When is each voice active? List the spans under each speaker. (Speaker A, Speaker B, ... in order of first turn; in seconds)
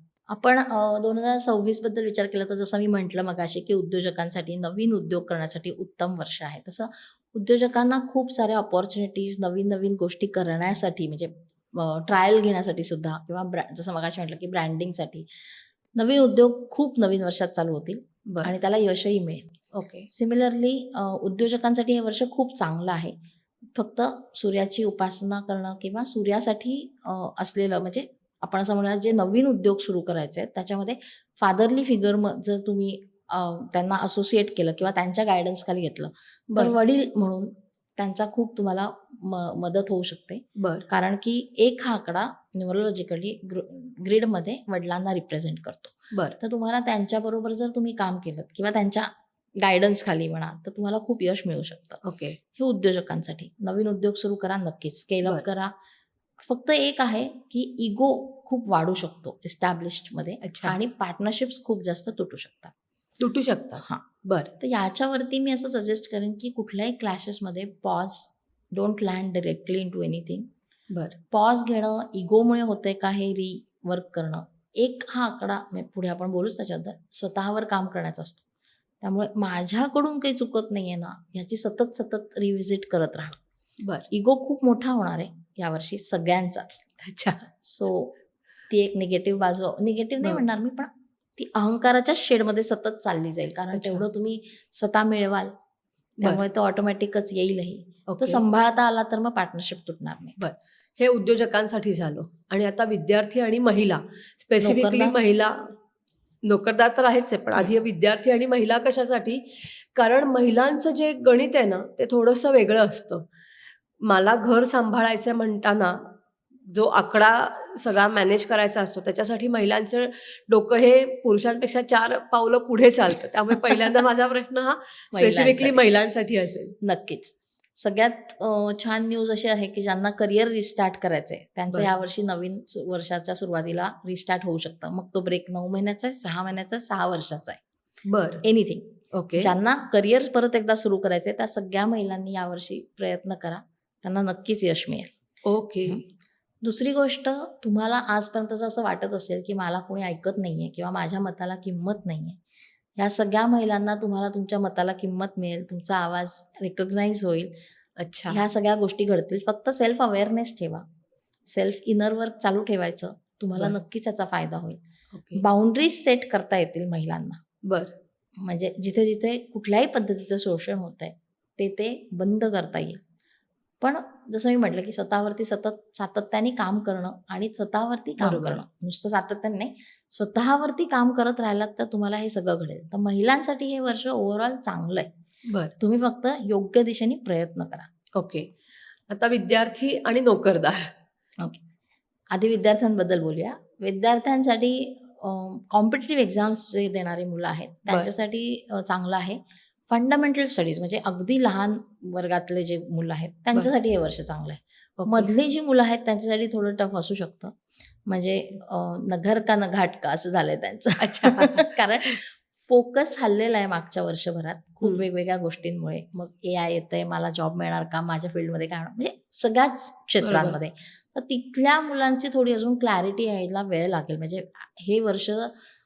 Speaker A: 0.3-19.5, 20.1-23.1, 23.8-52.0, 52.5-55.7, 56.4-62.7, 64.6-70.5, 71.3-78.4, 79.0-83.4, 84.1-86.9, 87.6-88.1, 88.7-95.5, 96.2-100.4, 104.6-105.2, 125.1-125.8, 126.8-137.6, 138.4-145.1, 146.6-152.4, 153.0-157.5, 158.3-160.8, 161.5-164.8, 165.3-167.4, 168.4-173.0, 173.8-185.1, 185.8-187.9, 192.3-207.5, 208.1-225.5
Speaker B: 19.8-20.1, 40.6-40.9, 46.1-46.4, 52.0-52.4, 60.4-60.8, 63.2-64.5, 70.9-71.2, 87.0-87.5, 93.7-94.0, 98.1-98.4, 100.4-105.7, 106.5-109.4, 109.9-113.3, 114.1-116.0, 116.7-126.8, 138.1-138.4, 139.1-139.5, 145.5-146.0, 158.0-158.4, 165.1-165.4, 178.2-178.6, 185.5-185.7, 188.2-188.5, 189.1-190.9, 205.0-205.3, 211.0-212.2, 220.2-220.6